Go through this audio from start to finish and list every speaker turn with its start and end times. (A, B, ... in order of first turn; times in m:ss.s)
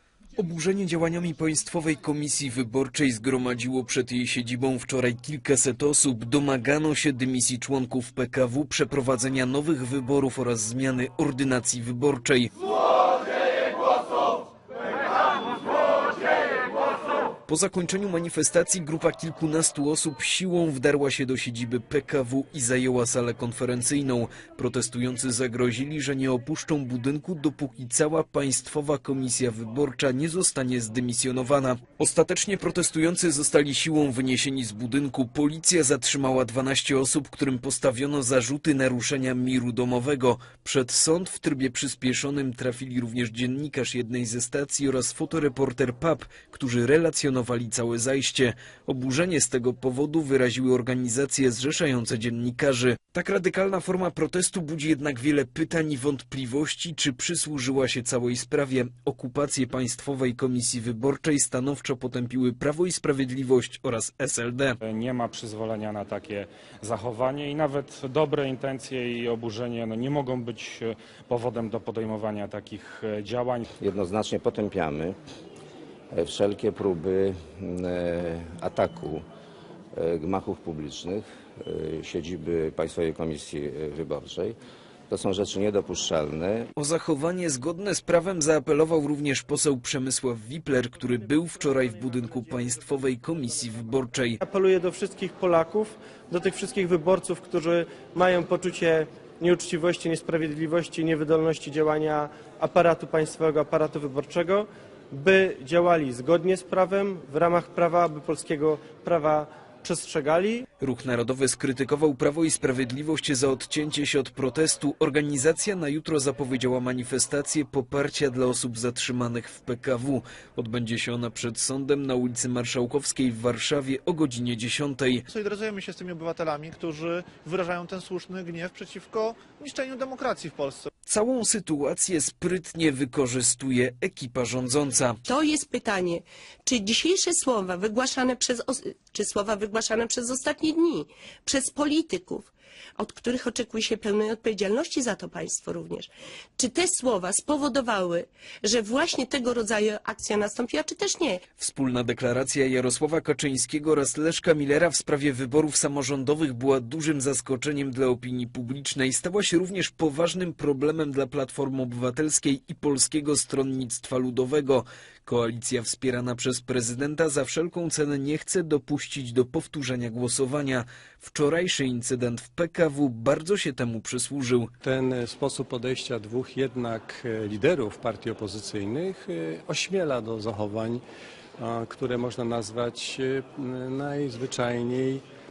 0:00.4-0:12.5 A
0:17.4-1:04.8 A
1:04.9-1:13.9 B
1:13.8-1:15.2 C
1:16.1-1:19.2 C
1:19.9-1:24.6 C
1:25.1-1:26.7 C
1:26.8-1:34.4 A
1:34.4-1:50.6 D
1:50.8-2:05.2 A
2:05.3-2:10.9 E
2:11.1-2:15.2 A
2:15.3-2:31.4 F
2:31.6-2:54.7 A
2:54.8-3:01.0 G
3:01.6-3:05.2 G